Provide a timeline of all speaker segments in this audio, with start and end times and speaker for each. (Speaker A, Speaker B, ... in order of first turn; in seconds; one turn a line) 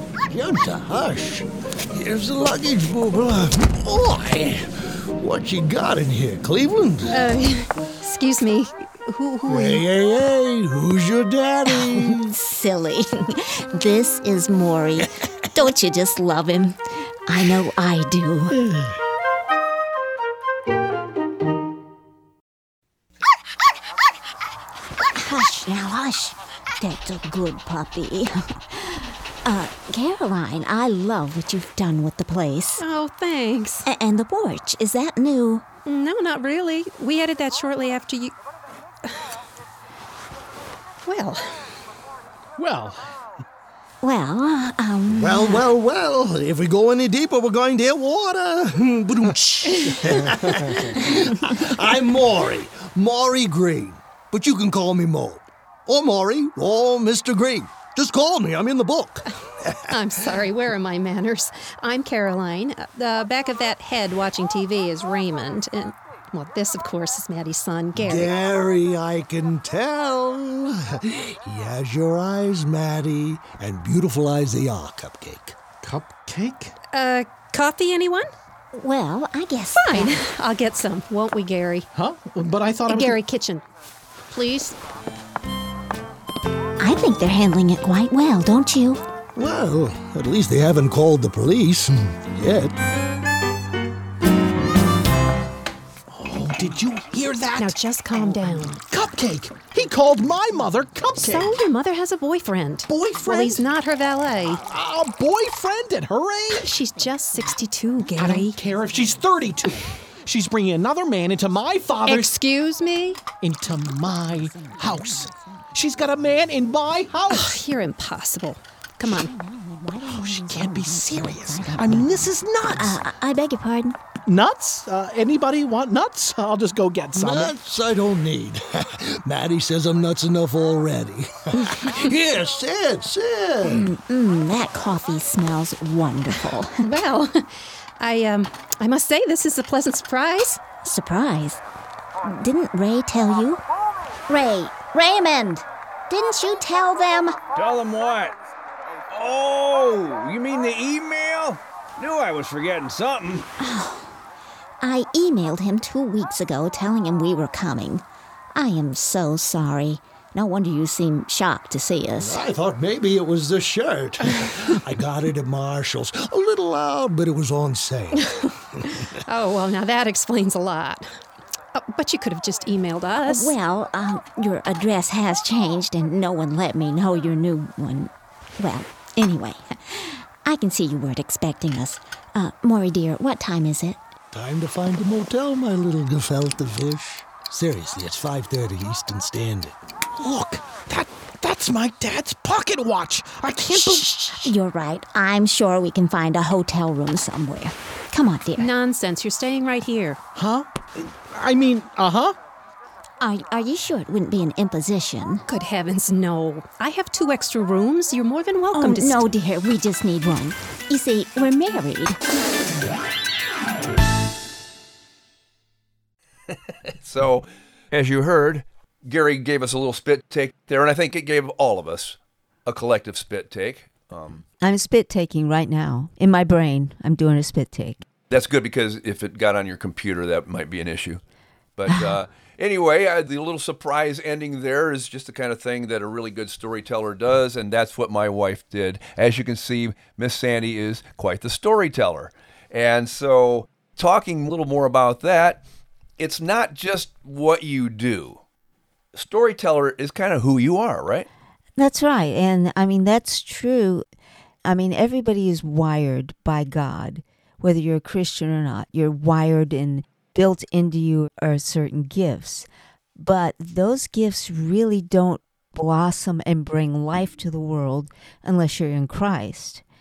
Speaker A: 0.3-7.2
Speaker B: 7.1-9.8
Speaker A: 9.4-12.3
Speaker C: 11.7-18.6
Speaker A: 18.5-18.9
Speaker C: 25.1-32.8
Speaker B: 32.8-33.9
Speaker C: 33.9-35.6
Speaker B: 35.8-38.3
Speaker B: 41.0-41.7
Speaker D: 42.6-43.0
Speaker C: 44.0-45.6
Speaker A: 45.1-59.9
Speaker B: 59.9-68.3
Speaker A: 68.0-75.6
Speaker D: 75.8-76.8
Speaker B: 76.9-78.3
Speaker C: 78.7-80.2
Speaker B: 79.8-81.9
Speaker D: 81.9-83.2
Speaker B: 82.9-83.6
Speaker B: 84.3-84.8
Speaker C: 86.8-89.0
Speaker A: 89.3-92.8
Speaker D: 96.1-101.5
Speaker B: 97.6-98.8
Speaker B: 101.2-104.6
Speaker D: 102.9-103.6
Speaker D: 104.5-106.7
Speaker B: 106.5-108.6
Speaker D: 108.2-112.3
Speaker B: 112.0-113.2
Speaker D: 113.4-117.6
Speaker C: 114.0-115.6
Speaker B: 117.3-119.3
Speaker C: 119.0-124.0
Speaker D: 120.0-123.0
Speaker D: 124.2-127.5
Speaker A: 127.2-133.9
Speaker C: 133.6-136.8
Speaker B: 136.8-140.6
Speaker C: 140.8-141.6
Speaker C: 142.2-143.6
Speaker C: 144.3-147.4
Speaker E: 147.5-148.3
Speaker E: 149.1-153.5
Speaker C: 153.6-154.1
Speaker C: 154.8-158.0
Speaker C: 158.5-162.4
Speaker A: 162.2-168.2
Speaker A: 168.8-169.1
Speaker B: 169.2-171.0
Speaker B: 171.7-173.6
Speaker C: 173.3-184.0
Speaker A: 184.3-189.8
Speaker D: 190.2-194.5
Speaker C: 193.7-198.7
Speaker B: 198.6-200.2
Speaker D: 200.3-202.3
Speaker C: 203.2-205.4
Speaker B: 205.5-209.2
Speaker C: 208.7-212.2
Speaker F: 216.9-224.4
Speaker G: 224.6-228.0
Speaker F: 228.3-231.2
Speaker F: 231.8-245.6
Speaker G: 231.9-232.1
Speaker F: 246.2-248.4
Speaker F: 249.1-251.3
Speaker G: 251.8-254.0
Speaker G: 254.6-269.8